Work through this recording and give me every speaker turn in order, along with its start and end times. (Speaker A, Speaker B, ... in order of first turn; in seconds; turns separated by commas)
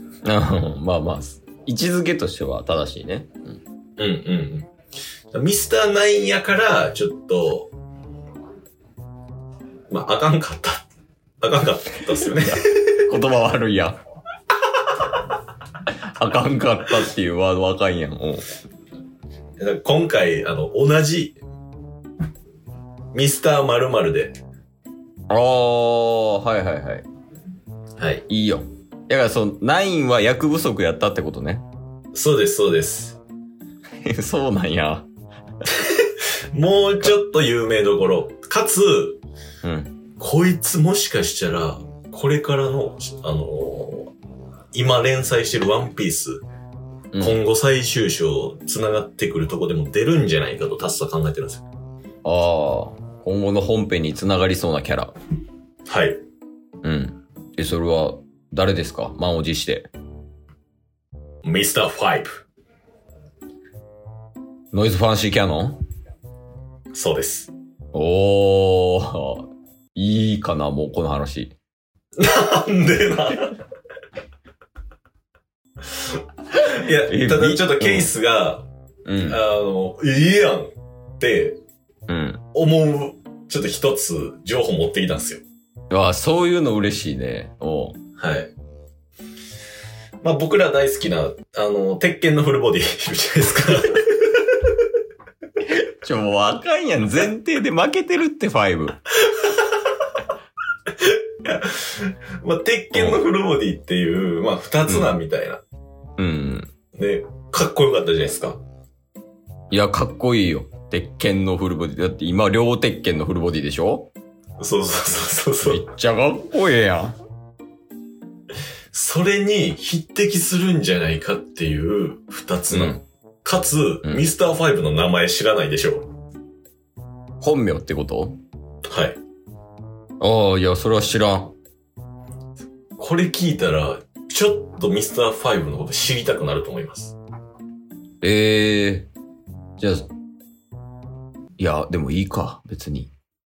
Speaker A: 0.2-3.6, Speaker B: 4.0-4.7, Speaker B: 5.3-7.7, Speaker B: 9.9-10.8, Speaker B: 11.4-12.6, Speaker A: 12.5-14.0, Speaker A: 16.2-18.4, Speaker B: 19.6-21.4, Speaker B: 23.1-24.4, Speaker A: 25.3-27.1, Speaker B: 28.0-28.2, Speaker A: 28.3-31.6, Speaker B: 32.1-33.2, Speaker A: 34.0-35.1, Speaker B: 35.8-39.2, Speaker A: 39.6-40.0, Speaker B: 40.2-44.1, Speaker B: 44.7-46.4, Speaker A: 47.1-47.4, Speaker B: 47.2-51.6, Speaker A: 52.2-55.1, Speaker B: 55.9-56.2, Speaker A: 56.8-59.9, Speaker B: 61.4-62.4, Speaker A: 64.7-65.8, Speaker B: 66.9-67.5, Speaker A: 67.9-71.5, Speaker B: 72.2-73.5, Speaker B: 76.5-78.7, Speaker A: 77.0-78.1, Speaker A: 79.0-79.4, Speaker B: 79.2-81.6, Speaker A: 82.1-82.4, Speaker B: 82.5-85.4, Speaker A: 85.9-88.0, Speaker B: 88.2-88.5, Speaker B: 90.2-94.6, Speaker A: 95.7-99.0, Speaker B: 101.0-105.6, Speaker A: 102.9-103.2, Speaker A: 104.9-105.1, Speaker A: 106.2-106.7, Speaker B: 106.9-108.6, Speaker A: 109.7-114.1, Speaker B: 114.6-115.8, Speaker A: 115.6-117.2, Speaker B: 118.9-126.1, Speaker A: 122.7-123.0, Speaker A: 127.4-128.4, Speaker B: 128.8-129.2, Speaker A: 130.2-131.5, Speaker B: 133.0-137.2, Speaker A: 138.2-139.1, Speaker A: 139.8-140.1, Speaker A: 141.6-143.1